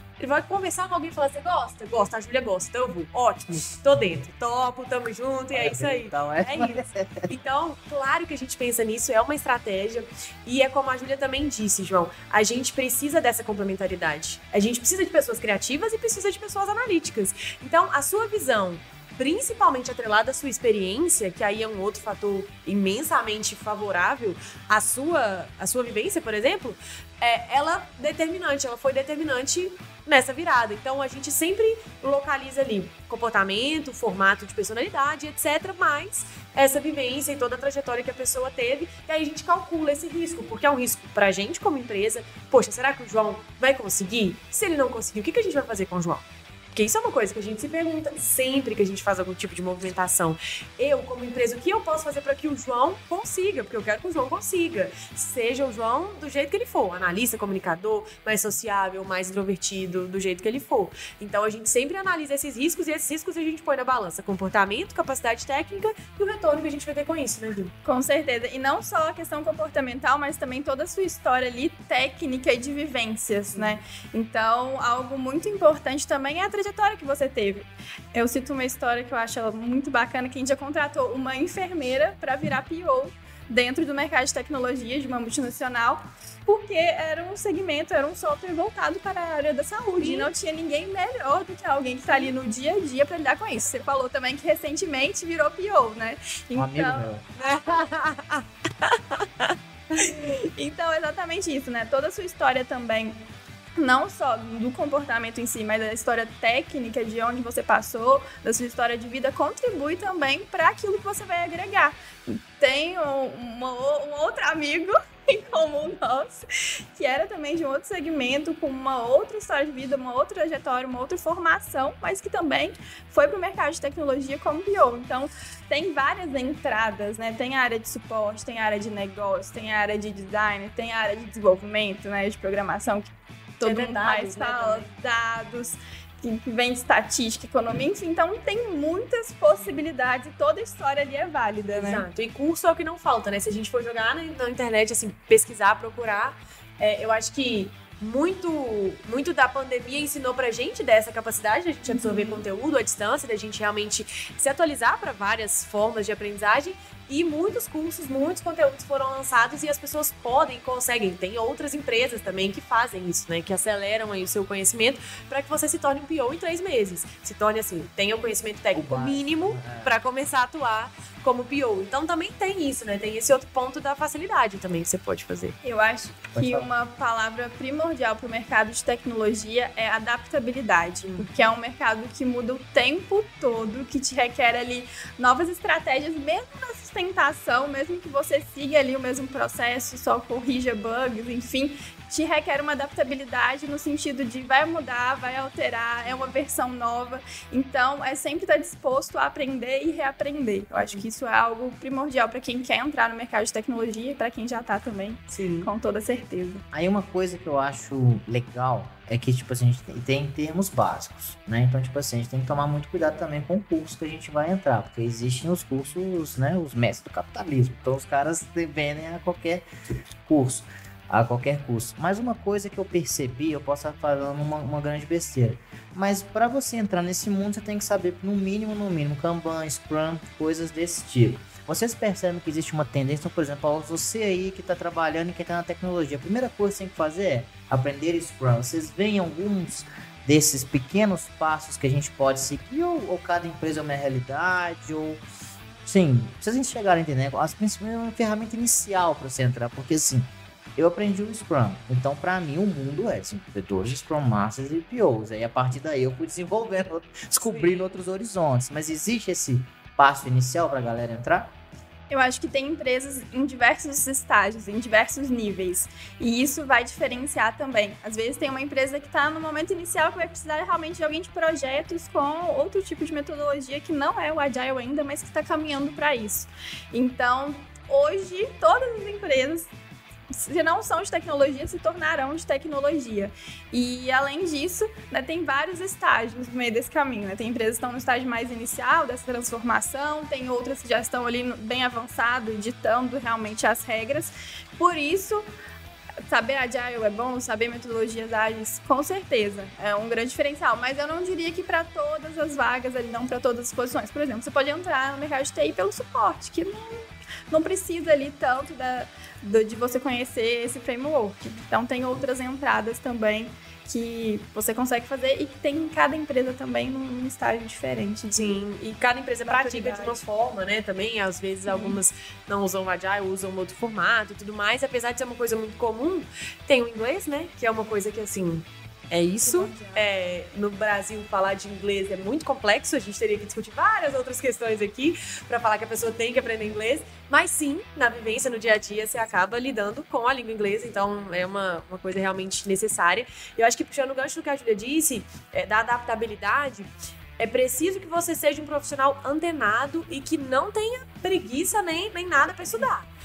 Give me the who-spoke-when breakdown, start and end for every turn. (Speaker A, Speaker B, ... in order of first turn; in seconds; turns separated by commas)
Speaker A: 0.2-67.7, Speaker B: 5.5-7.3, Speaker C: 67.8-97.1, Speaker A: 90.0-90.3, Speaker B: 96.5-97.2, Speaker A: 97.4-99.2, Speaker C: 100.0-103.2, Speaker C: 103.8-142.1, Speaker A: 133.6-134.9, Speaker A: 141.7-175.6, Speaker C: 151.9-152.4, Speaker B: 168.7-170.0, Speaker C: 175.6-206.6, Speaker B: 176.3-176.7, Speaker A: 181.1-181.3, Speaker A: 205.3-205.7, Speaker B: 206.7-219.6, Speaker B: 220.2-245.2, Speaker B: 245.8-261.5, Speaker A: 257.4-258.0, Speaker C: 262.1-279.7, Speaker C: 280.3-295.4, Speaker C: 296.3-318.6, Speaker A: 318.3-353.1, Speaker C: 319.4-320.2, Speaker C: 321.7-322.0, Speaker C: 329.4-330.1